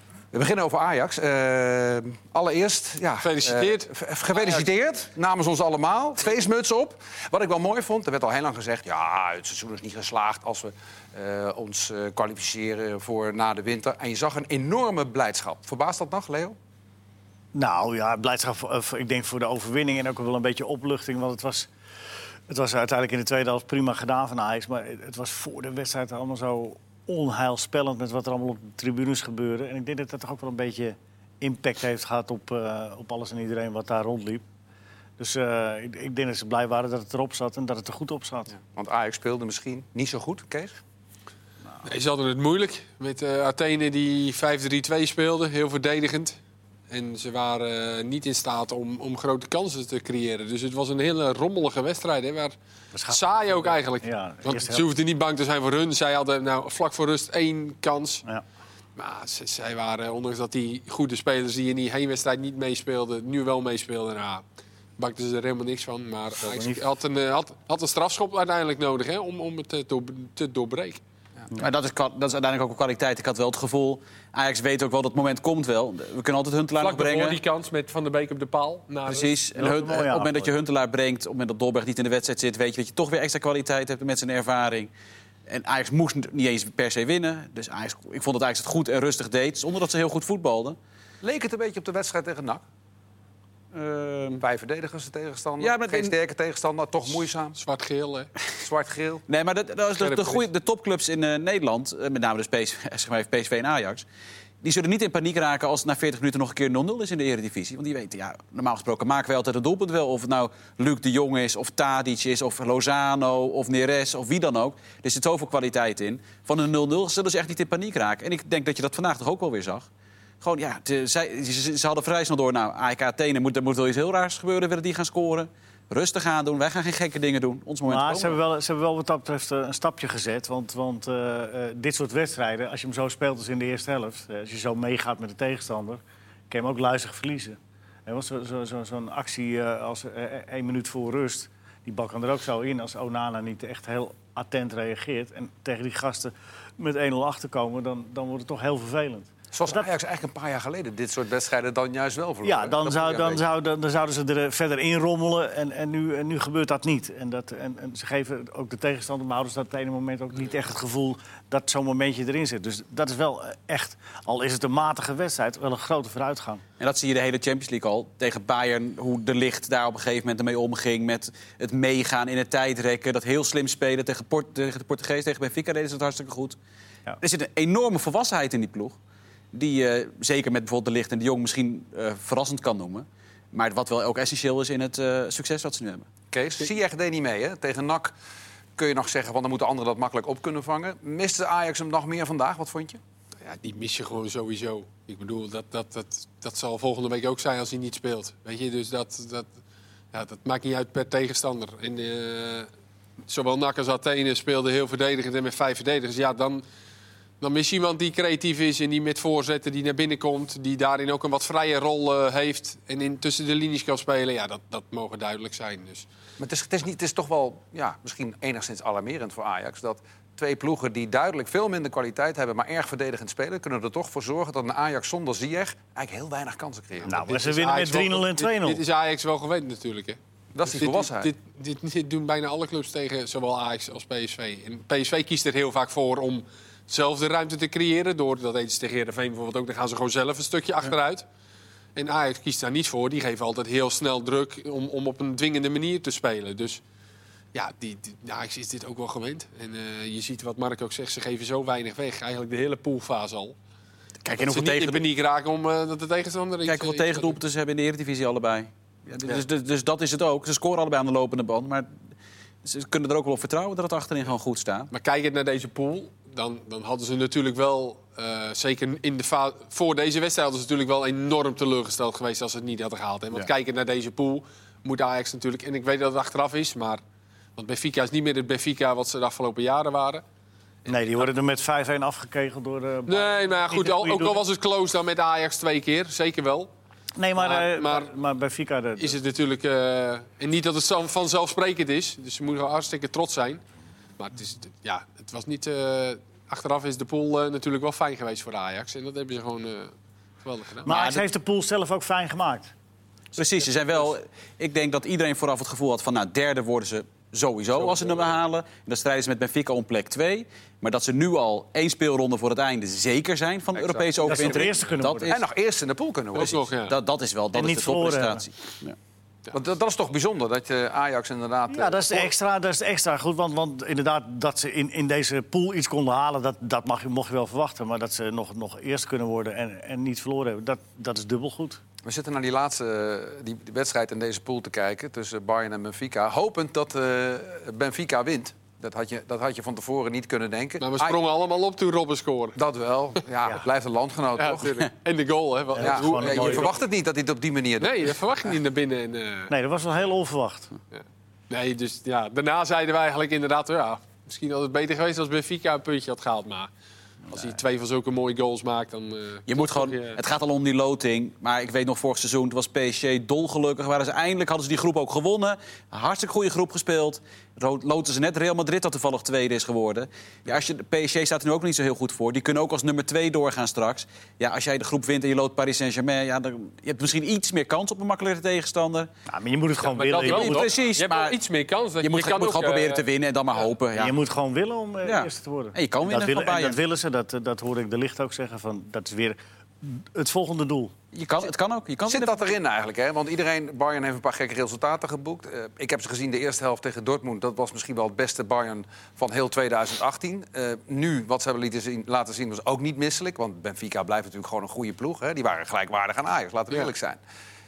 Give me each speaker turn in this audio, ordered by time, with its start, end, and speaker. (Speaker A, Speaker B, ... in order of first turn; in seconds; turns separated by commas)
Speaker A: 0.3-16.6, Speaker B: 3.2-4.6, Speaker C: 17.5-21.7, Speaker C: 22.5-34.4, Speaker C: 35.2-38.5, Speaker A: 38.6-40.8, Speaker B: 41.8-46.4, Speaker B: 46.9-52.5, Speaker C: 52.9-54.9, Speaker B: 53.1-58.2, Speaker B: 59.0-64.4, Speaker B: 65.0-71.0, Speaker C: 66.4-66.8, Speaker D: 71.5-77.4, Speaker B: 76.8-79.3, Speaker D: 79.1-84.9, Speaker C: 79.5-80.5, Speaker D: 85.5-90.8, Speaker A: 91.2-92.6, Speaker D: 93.7-94.4, Speaker A: 94.4-97.6, Speaker D: 95.6-96.2, Speaker B: 97.5-98.3, Speaker A: 98.5-99.2, Speaker D: 99.3-104.0, Speaker B: 100.0-100.4, Speaker D: 104.6-119.9, Speaker D: 120.4-128.4, Speaker C: 127.9-149.9, Speaker A: 149.5-153.4, Speaker C: 152.4-166.6, Speaker D: 166.8-176.6, Speaker D: 177.2-179.0, Speaker D: 179.5-186.1, Speaker A: 186.3-188.1, Speaker A: 188.8-193.0, Speaker B: 193.4-199.5, Speaker B: 200.1-202.7, Speaker B: 203.3-206.6, Speaker B: 207.4-216.0, Speaker A: 216.4-227.2, Speaker C: 227.1-228.8, Speaker B: 227.1-241.2, Speaker A: 230.5-231.3, Speaker B: 241.9-246.8, Speaker B: 247.5-253.5, Speaker D: 254.2-255.0, Speaker B: 254.4-257.4, Speaker D: 256.6-261.9, Speaker D: 262.6-264.9, Speaker B: 264.9-277.0, Speaker B: 277.6-280.2, Speaker C: 280.9-284.4, Speaker B: 280.9-281.2, Speaker B: 283.1-286.7, Speaker C: 287.2-289.2, Speaker B: 287.4-288.1, Speaker B: 289.0-293.6, Speaker B: 294.2-299.9, Speaker B: 300.4-300.9, Speaker C: 300.9-302.7, Speaker D: 300.9-301.2, Speaker D: 303.3-315.4, Speaker B: 307.8-308.3, Speaker A: 313.8-314.6, Speaker C: 314.2-315.3, Speaker A: 315.2-316.5, Speaker B: 316.3-316.9, Speaker D: 316.3-318.9, Speaker C: 317.5-318.4, Speaker A: 319.5-322.3, Speaker C: 321.7-331.8, Speaker A: 332.0-341.1, Speaker B: 340.8-342.6, Speaker A: 342.6-344.9, Speaker B: 344.4-346.8, Speaker C: 345.7-346.7, Speaker A: 345.8-348.1, Speaker B: 347.8-349.5, Speaker C: 349.5-350.7, Speaker B: 350.9-356.7, Speaker B: 357.3-360.2, Speaker D: 359.5-379.1, Speaker C: 379.3-380.7, Speaker B: 379.9-383.0, Speaker D: 380.2-381.4, Speaker D: 382.0-384.1, Speaker C: 383.9-390.9, Speaker D: 385.0-386.8, Speaker D: 391.1-392.4, Speaker A: 392.1-407.2